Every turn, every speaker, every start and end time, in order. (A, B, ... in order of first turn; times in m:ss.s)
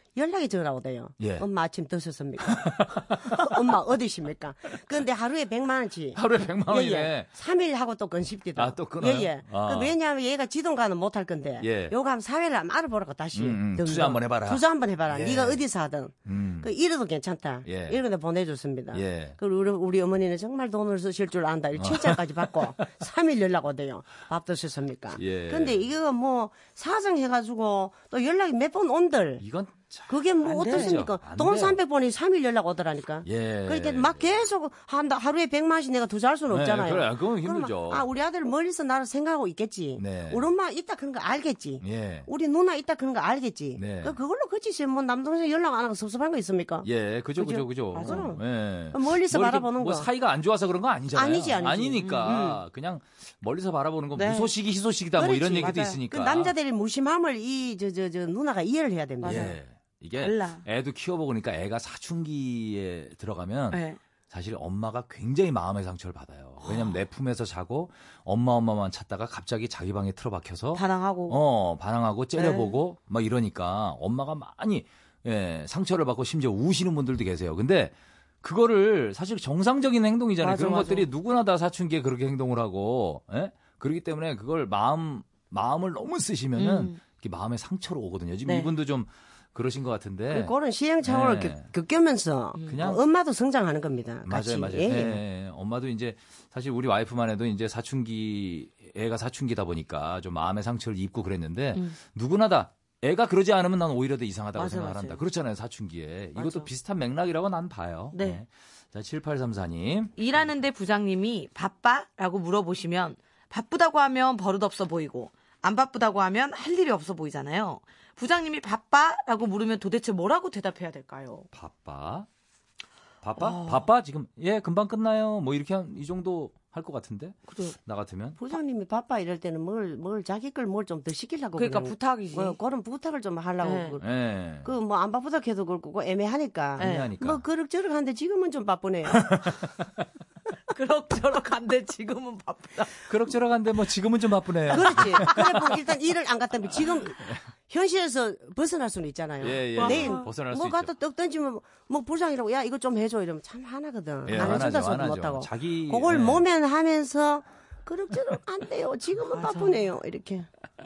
0:00.2-0:29.4 A
0:01.2-0:01.4 B
0:02.5-0:03.7 B
0:06.2-0:07.3 B
0:08.6-0:10.0 B
0:11.6-0:12.0 B
0:13.3-0:15.6 B
0:16.2-0:16.7 B
0:17.6-0:18.0 B
0:18.9-0:19.4 B
0:21.8-0:22.6 B
0:25.2-0:25.8 B
0:29.4-0:31.8 B
0:30.1-0:46.9 A
0:30.5-0:31.0 C
0:33.2-0:34.4 B
0:36.5-0:38.1 B
0:40.0-0:40.4 B
0:41.8-0:42.3 B
0:43.8-0:44.2 B
0:46.8-0:56.5 B
0:47.4-0:48.4 A
0:47.9-0:48.3 C
0:48.9-0:50.1 A
0:51.1-0:52.6 A
0:52.0-0:52.4 C
0:54.2-0:54.5 C
0:55.2-0:59.5 A
0:55.6-0:56.0 C
0:59.2-0:59.6 C
0:59.2-1:31.7 B
1:00.2-1:00.7 C
1:03.7-1:04.0 C
1:06.6-1:07.0 C
1:10.7-1:11.4 C
1:12.4-1:12.8 C
1:20.4-1:21.1 C
1:26.6-1:27.0 C
1:28.5-1:28.7 C
1:30.3-1:35.2 A
1:32.6-1:32.9 C
1:32.7-1:33.0 B
1:34.3-1:50.4 B
1:44.6-1:45.2 C
1:46.4-1:46.7 C
1:48.1-1:48.4 C
1:50.2-2:01.5 C
2:01.5-2:02.3 B
2:03.2-2:08.4 B
2:03.4-2:03.9 C
2:07.5-2:07.8 C
2:08.4-2:14.1 A
2:11.6-2:12.6 C
2:13.6-2:14.0 C
2:14.0-2:14.7 B
2:14.6-2:19.3 A
2:16.8-2:17.1 C
2:16.8-2:17.4 B
2:19.1-2:19.7 B
2:20.7-2:23.1 C
2:23.1-2:25.8 B
2:24.7-2:40.5 A
2:24.8-2:25.4 C
2:27.1-2:27.4 B
2:29.4-2:30.9 B
2:29.8-2:30.3 C
2:34.3-2:36.5 B
2:39.3-2:39.9 C